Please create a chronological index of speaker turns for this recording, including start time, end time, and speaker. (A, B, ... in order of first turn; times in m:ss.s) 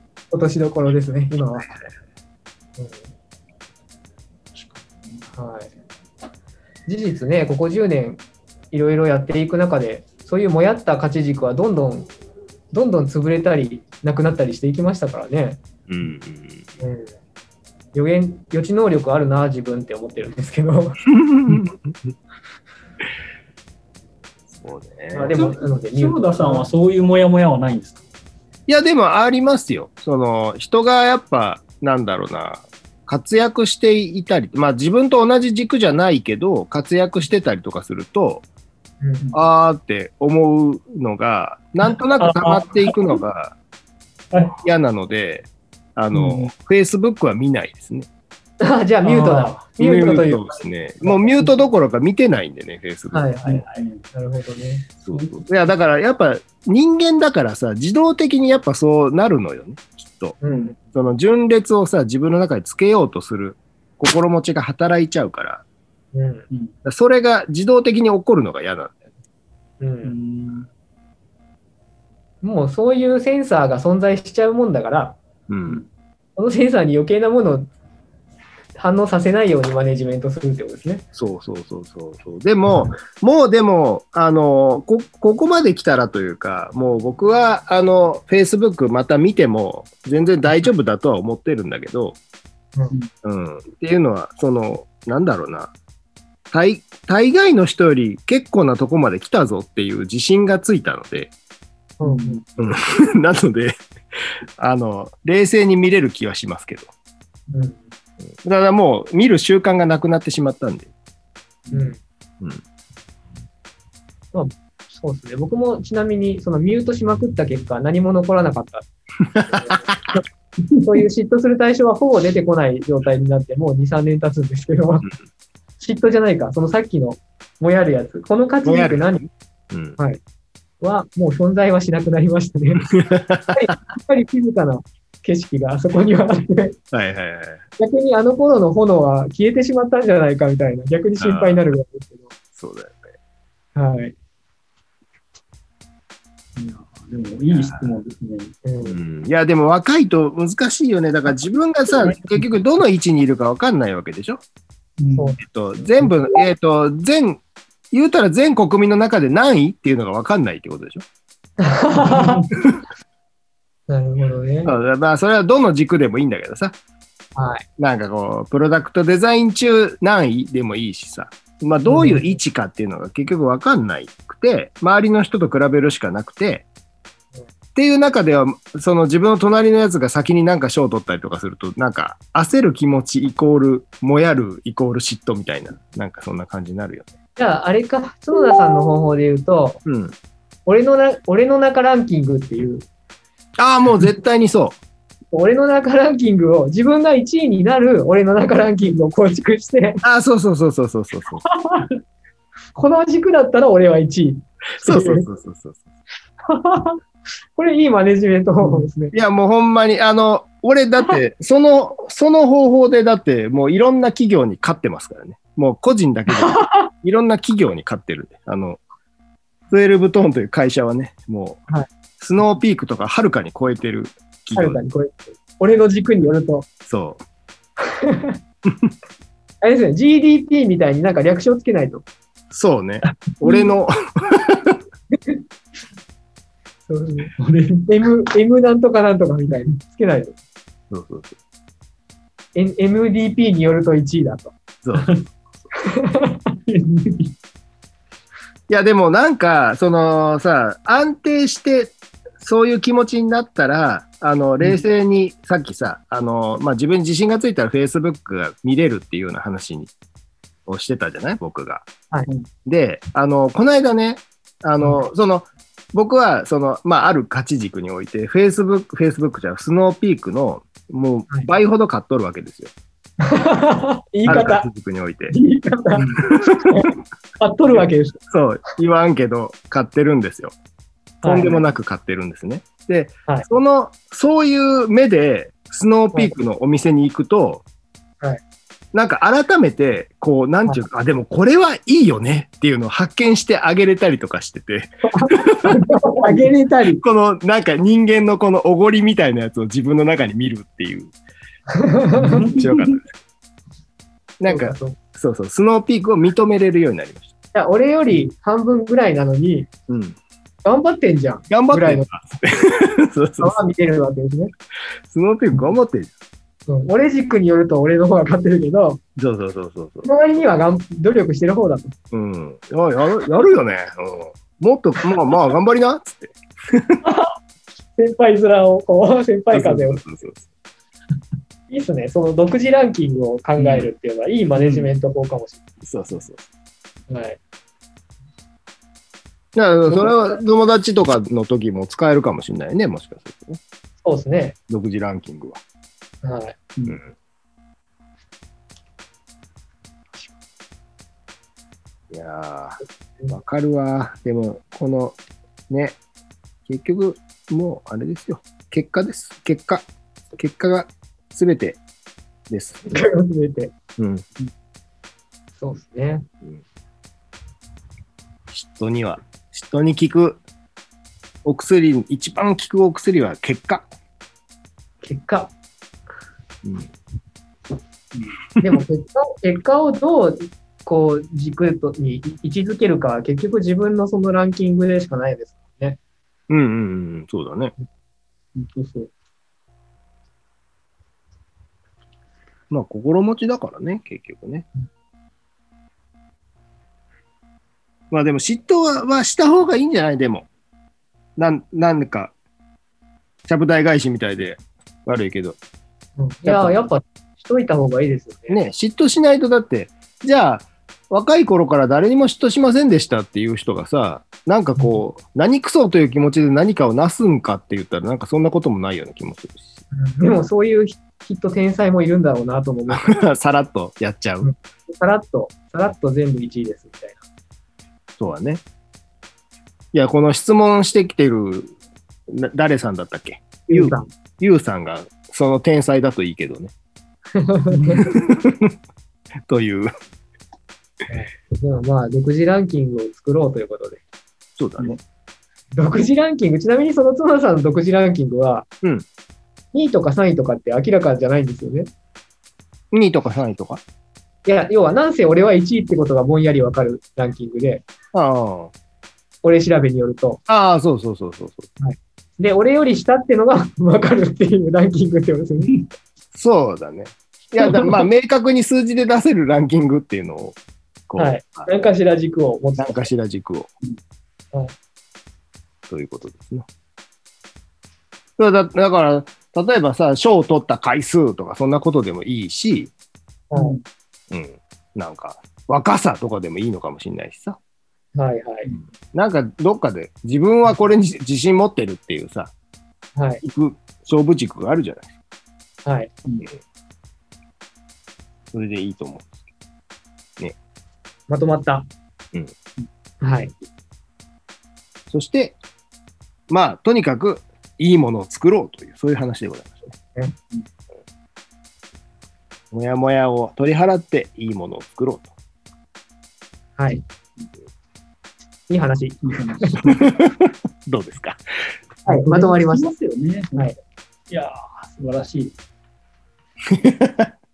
0:00.3-0:01.7 A
0:04.5-0:05.3 B
0:05.4-0:05.7 A
0:06.8-0:12.1 A
0:12.7-0:15.6 A
0:15.9-0:16.6 C
0:16.8-0:17.1 A
0:17.9-0:21.0 A
0:21.1-0:22.0 C
0:24.5-0:25.4 C
0:25.1-0:26.7 A
0:25.3-0:28.0 B
0:28.7-0:38.4 C
0:39.3-0:43.5 C
0:42.2-0:43.1 B
0:44.3-0:44.6 B
0:44.6-0:48.1 C
0:46.1-0:46.5 B
0:48.6-0:51.6 A
0:49.0-0:49.6 B
0:49.8-0:53.6 C
0:53.1-0:54.8 A
0:53.4-0:54.0 B
0:55.0-1:00.4 C
0:55.1-0:55.5 B
1:00.4-1:00.8 A
1:00.9-1:05.6 C
1:06.1-1:06.4 A
1:06.8-1:09.0 C
1:09.8-1:10.1 A
1:10.0-1:10.7 B
1:12.4-1:15.2 A
1:15.5-1:15.8 C
1:16.4-1:17.7 A
1:18.8-1:21.0 A
1:21.1-1:32.2 C
1:33.2-1:35.7 C
1:36.5-1:41.3 C
1:42.0-1:42.4 A
1:42.0-1:42.4 B
1:42.6-1:43.8 C
1:44.6-1:46.9 C
1:47.5-1:47.8 A
1:48.4-1:50.9 C
1:51.7-1:52.0 A
1:54.3-1:58.9 A
1:59.3-2:00.2 C
1:59.5-2:00.2 A
2:00.8-2:05.1 A
2:05.8-2:09.2 A
2:08.6-2:10.0 C
2:10.8-2:12.9 A
2:12.8-2:13.6 C
2:13.5-2:16.8 A
2:16.9-2:17.6 C
2:17.8-2:22.3 A
2:21.2-2:21.6 C
2:22.6-2:23.0 C
2:23.7-2:24.1 A
2:26.6-2:28.5 B
2:27.5-2:27.9 C
2:28.6-2:29.0 A
2:28.8-2:34.4 C
2:35.0-2:35.4 B
2:35.1-2:35.4 A
2:35.4-2:41.0 C
2:41.6-2:42.4 A
2:42.0-2:42.5 B
2:43.9-2:44.7 A
2:44.6-2:46.8 C
2:47.4-2:47.6 A
2:47.8-2:56.6 C
2:51.8-2:52.2 A
2:57.7-3:07.1 C
3:07.4-3:09.8 A
3:09.8-3:10.1 C
3:10.6-3:12.8 A
3:13.6-3:14.8 C
3:15.3-3:20.0 A
3:20.0-3:21.4 C
3:21.4-3:21.9 A
3:22.7-3:25.2 A
3:24.8-3:25.8 C
3:26.5-3:27.0 A
3:27.6-3:29.1 A
3:29.1-3:38.8 C
3:36.3-3:36.9 A
3:39.7-3:41.6 C
3:42.2-3:44.8 C
3:44.5-3:46.7 A
3:46.8-3:47.2 C
3:48.0-3:48.4 A
3:48.6-3:48.9 C
3:49.6-3:52.0 A
3:52.5-3:54.8 C
3:53.0-3:53.3 B
3:56.9-3:57.3 A
3:57.4-3:57.9 B
3:57.9-4:00.3 A
4:00.9-4:01.3 C
4:02.5-4:04.5 A
4:04.8-4:05.2 C
4:05.0-4:05.2 B
4:05.8-4:06.4 A
4:06.7-4:07.3 B
4:08.7-4:19.9 C
4:20.7-4:21.9 C
4:22.6-4:32.7 C
4:33.2-4:34.7 A
4:34.2-4:35.3 C
4:35.3-4:38.2 A
4:36.0-4:36.7 C
4:37.7-4:40.5 C
4:41.2-4:41.6 A
4:41.2-4:47.6 C
4:48.9-4:55.8 C
4:55.1-4:57.0 A
4:57.0-5:01.1 C
5:01.7-5:02.5 A
5:02.2-5:03.0 B
5:02.5-5:03.1 C
5:04.4-5:07.3 C
5:04.5-5:05.0 A
5:07.5-5:09.7 A
5:09.9-5:10.2 C
5:10.6-5:12.0 A
5:11.5-5:13.6 C
5:13.4-5:14.5 A
5:15.1-5:16.1 C
5:16.7-5:19.0 A
5:19.2-5:20.1 C
5:20.0-5:21.9 A
5:22.1-5:27.0 C
5:27.0-5:27.3 A
5:27.9-5:30.0 A
5:29.5-5:30.4 C
5:31.7-5:35.6 A
5:35.8-5:36.4 C
5:37.1-5:37.4 A
5:39.5-5:43.6 C
5:39.9-5:40.1 A
5:44.0-5:44.6 A
5:44.7-5:45.6 C
5:46.2-5:46.6 A
5:52.1-5:52.8 C
5:53.3-5:55.2 C
5:55.7-5:56.0 C
5:56.6-5:59.8 C
6:00.4-6:01.8 C
6:02.5-6:02.8 C
6:02.8-6:03.7 A
6:04.0-6:04.2 C
6:05.6-6:06.2 A
6:08.5-6:10.4 C
6:11.4-6:13.9 C
6:15.0-6:15.5 A
6:16.6-6:16.9 C
6:18.6-6:26.0 A
6:26.5-6:27.7 C
6:28.5-6:29.1 B
6:32.7-6:34.7 C
6:38.1-6:40.5 C
6:41.4-6:42.3 C
6:43.5-6:45.6 C
6:46.2-6:48.6 A
6:46.4-6:46.8 C
6:48.5-6:59.8 C
6:59.9-7:03.1 A
7:02.9-7:04.5 C
7:04.4-7:07.2 A
7:08.2-7:08.6 C
7:09.9-7:11.7 C
7:12.3-7:16.7 C
7:13.7-7:14.1 A
7:17.3-7:18.0 A
7:17.7-7:18.0 B
7:18.0-7:18.7 C
7:19.5-7:19.9 C
7:21.1-7:24.0 A
7:24.6-7:25.0 C
7:25.7-7:28.6 A
7:29.7-7:31.9 A
7:32.9-7:33.8 C
7:34.4-7:37.8 A
7:38.1-7:38.7 C
7:39.4-7:40.4 A
7:40.5-7:41.7 C
7:41.8-7:45.8 A
7:46.3-7:50.6 C
7:51.1-7:51.8 C
7:51.2-7:53.1 A
7:52.8-7:53.7 C
7:55.9-7:56.7 C
7:58.4-8:02.9 C
8:03.5-8:03.8 A
8:03.5-8:03.8 B
8:04.3-8:07.6 C
8:08.1-8:08.7 A
8:08.9-8:12.5 C
8:13.1-8:13.4 A
8:13.4-8:15.1 C
8:15.8-8:16.1 A
8:18.5-8:19.3 C
8:21.3-8:21.9 A
8:23.2-8:23.5 A
8:25.1-8:25.6 C
8:26.5-8:29.9 C
8:32.7-8:35.3 C
8:36.8-8:37.0 A
8:38.7-8:39.8 A
8:39.2-8:40.0 B
8:39.8-8:41.7 C
8:42.0-8:42.9 A
8:42.0-8:43.7 B
8:44.3-8:45.5 B
8:46.7-8:47.3 C